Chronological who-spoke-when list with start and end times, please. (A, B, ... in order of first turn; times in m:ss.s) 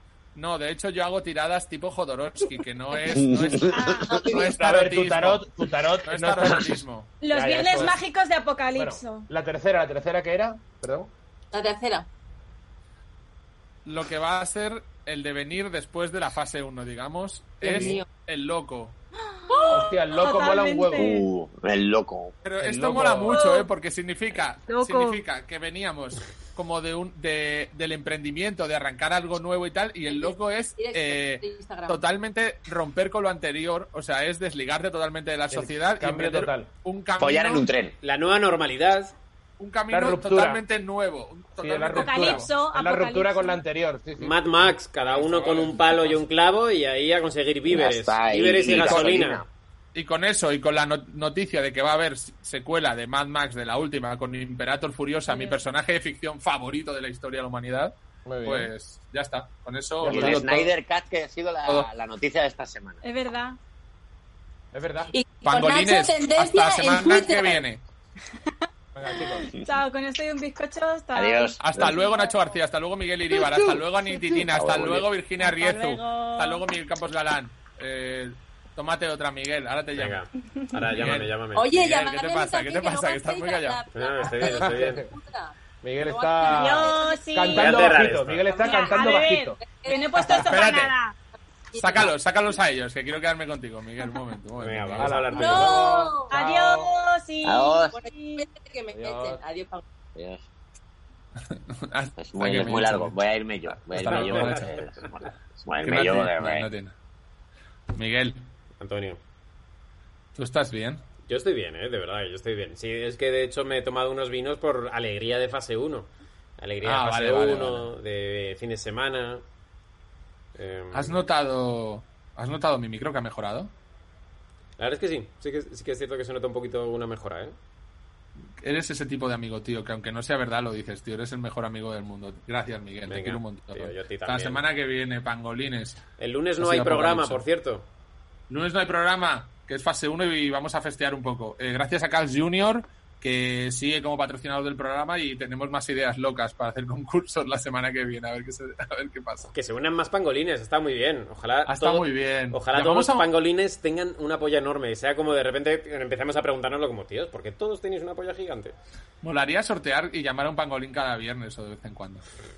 0:00.4-0:05.4 A
0:03.0-0:04.2 B
0:03.7-0:04.3 C
0:04.6-0:06.8 D
0:06.0-0:07.1 A
0:07.2-0:09.3 C
0:07.3-0:08.0 D
0:08.8-0:11.1 D
0:11.5-0:12.1 E
0:13.9-0:19.0 A
0:17.6-0:18.0 D
0:17.7-0:18.1 E
0:19.5-0:21.3 C
0:19.7-0:21.2 D
0:21.0-0:22.4 B
0:22.4-0:37.7 A
0:22.6-0:23.4 D
0:23.3-0:23.7 C
0:24.7-0:25.2 C
0:30.1-0:32.0 E
0:35.5-0:36.7 D
0:37.2-0:38.0 B
0:38.0-0:39.1 F
0:39.6-0:42.5 A
0:39.9-0:40.6 D
0:41.6-0:44.4 D
0:41.9-0:43.6 C
0:44.2-0:49.4 F
0:45.1-0:46.2 A
0:47.7-0:49.5 B
0:49.9-0:57.9 A
0:55.3-0:55.6 C
0:58.3-0:58.7 D
0:58.4-1:00.7 A
1:00.0-1:00.7 D
1:00.1-1:03.0 B
1:03.0-1:03.6 C
1:04.7-1:05.1 D
1:05.1-1:07.6 E
1:05.4-1:07.8 A
1:09.0-1:09.5 D
1:09.6-1:12.6 C
1:11.1-1:12.0 B
1:11.6-1:20.2 A
1:14.5-1:15.1 B
1:15.4-1:16.6 C
1:20.0-1:21.7 F
1:20.8-1:23.8 A
1:21.6-1:27.2 E
1:23.9-1:25.1 F
1:24.4-1:25.1 D
1:25.8-1:29.6 D
1:26.4-1:31.2 C
1:27.5-1:28.5 F
1:28.6-1:28.9 E
1:29.6-1:30.5 E
1:30.2-1:30.7 D
1:30.3-1:30.9 A
1:31.7-1:32.1 E
1:31.8-1:35.2 A
1:34.6-1:36.1 F
1:35.0-1:36.9 D
1:35.3-1:36.3 E
1:36.3-1:38.5 C
1:37.4-1:37.9 B
1:37.9-1:39.8 E
1:38.9-1:39.4 D
1:40.2-1:40.4 B
1:41.5-1:43.2 A
1:42.2-1:46.7 B
1:44.0-1:44.7 A
1:44.0-1:44.8 F
1:45.8-1:46.9 A
1:47.9-1:48.5 A
1:48.8-1:49.2 F
1:50.4-1:51.0 A
1:51.3-1:59.4 F
1:56.8-1:57.9 A
2:00.6-2:01.2 F
2:00.9-2:03.7 A
2:04.8-2:07.6 F
2:08.6-2:16.0 A
2:13.1-2:14.6 F
2:16.2-2:17.9 F
2:16.6-2:17.4 A
2:18.5-2:29.5 A
2:29.5-2:38.8 F
2:31.7-2:33.3 A
2:39.2-2:42.2 A